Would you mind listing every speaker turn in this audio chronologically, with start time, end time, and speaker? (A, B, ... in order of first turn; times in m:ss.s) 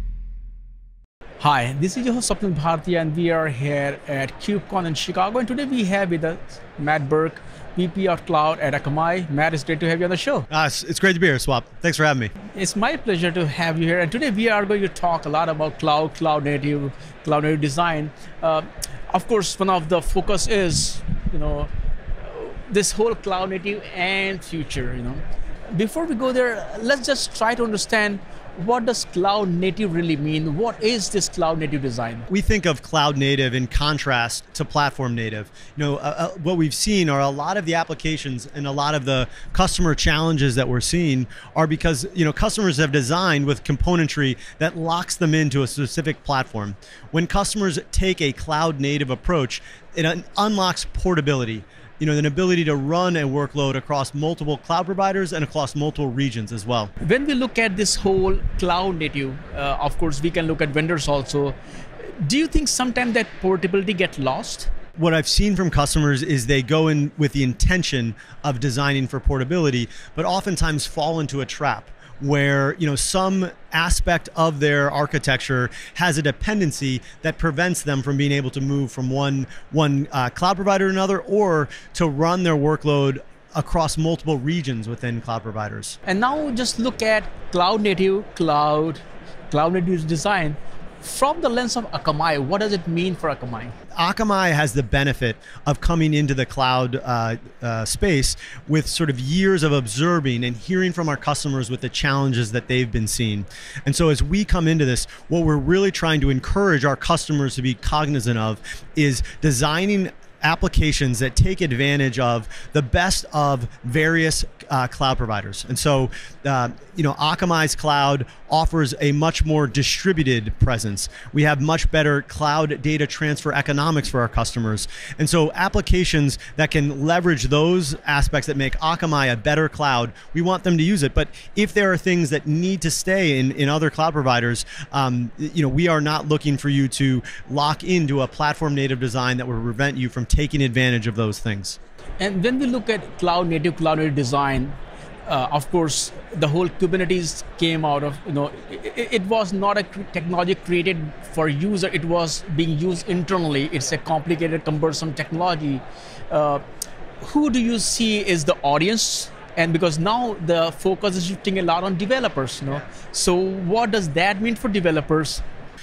0:01.4-0:10.5 A
0:10.5-0:12.3 B
0:12.5-0:32.3 A
0:32.3-0:56.9 B
0:57.0-1:01.5 A
1:02.2-1:04.7 A
1:05.0-1:26.0 B
1:26.0-1:33.7 A
1:34.0-2:21.8 B
2:22.2-2:24.7 A
2:25.2-2:36.6 A
2:37.2-2:45.4 A